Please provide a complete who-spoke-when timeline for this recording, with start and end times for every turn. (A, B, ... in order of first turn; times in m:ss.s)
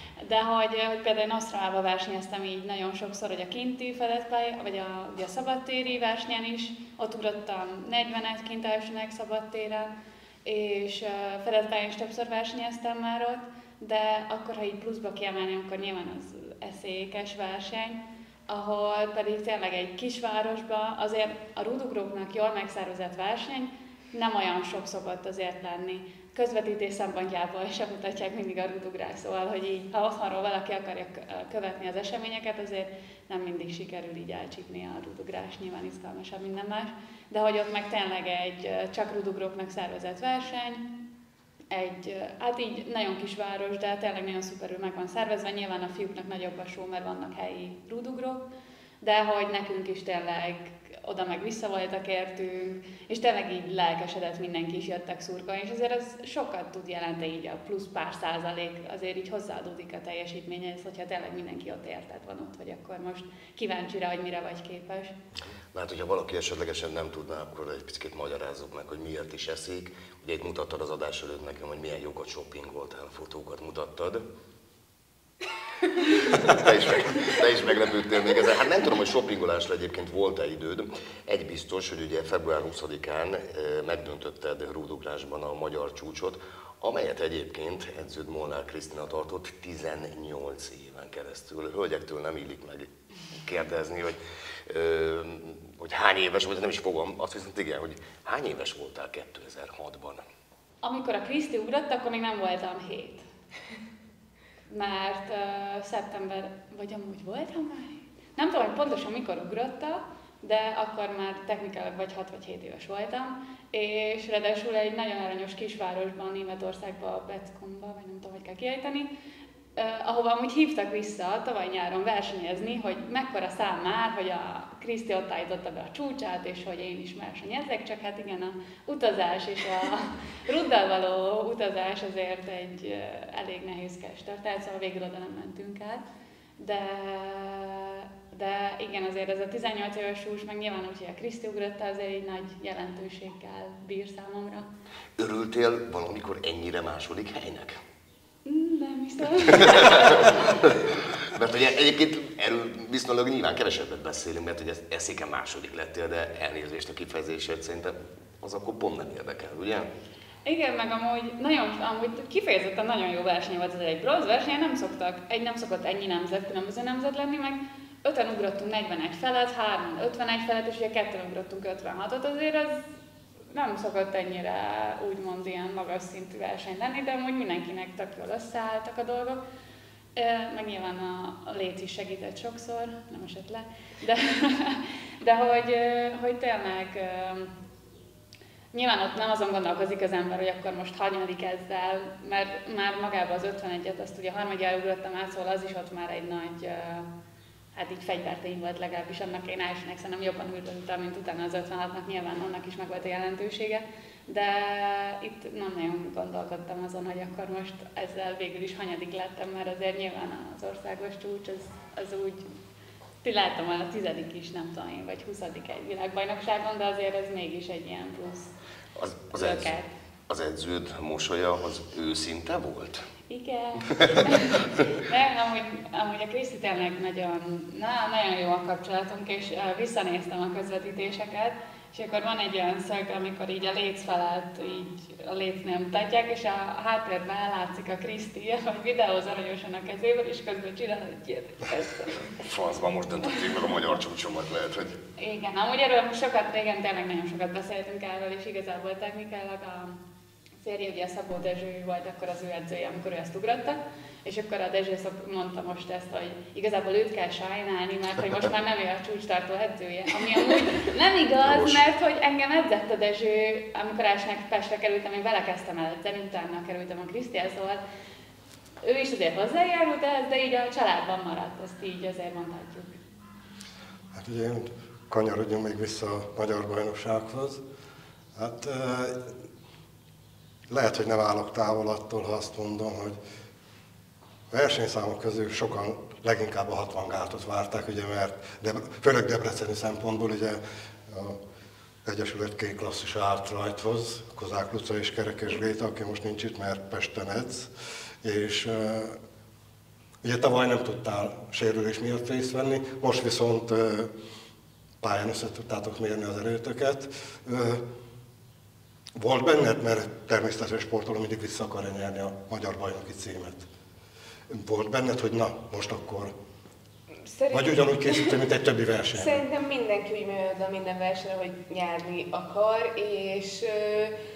0:00.2-0:09.9 A
0:10.4-0:40.9 A
0:41.7-0:48.4 A
0:49.0-1:05.2 A
1:05.7-1:14.3 B
1:16.3-1:32.9 B
1:33.4-1:40.2 B
1:40.8-1:43.3 A
1:44.7-1:59.1 A
1:59.8-2:16.0 A
2:16.6-2:24.7 A
2:25.2-2:27.8 B
2:28.4-2:30.4 A
2:29.6-2:39.9 B
2:40.4-2:52.9 A
2:53.5-2:59.4 A
3:00.2-3:07.5 A
3:08.7-3:17.1 A
3:17.8-3:32.4 A
3:33.2-3:38.5 A
3:39.0-3:39.8 B
3:39.4-3:39.9 A
3:40.3-3:43.0 B
3:43.3-4:02.3 A
3:43.9-3:44.8 B
4:02.3-4:05.0 B
4:05.2-4:10.0 A
4:10.6-4:27.8 A
4:21.4-4:21.8 B
4:28.8-4:33.0 A
4:34.1-4:37.6 C
4:38.4-4:39.2 C
4:40.7-4:43.2 C
4:44.5-4:51.4 C
4:52.0-4:57.7 C
4:58.2-4:59.2 C
5:00.2-5:04.1 C
5:05.0-5:07.8 C
5:09.2-5:13.6 C
5:14.5-5:16.3 C
5:17.3-5:18.4 D
5:17.5-5:19.4 C
5:19.2-5:24.1 D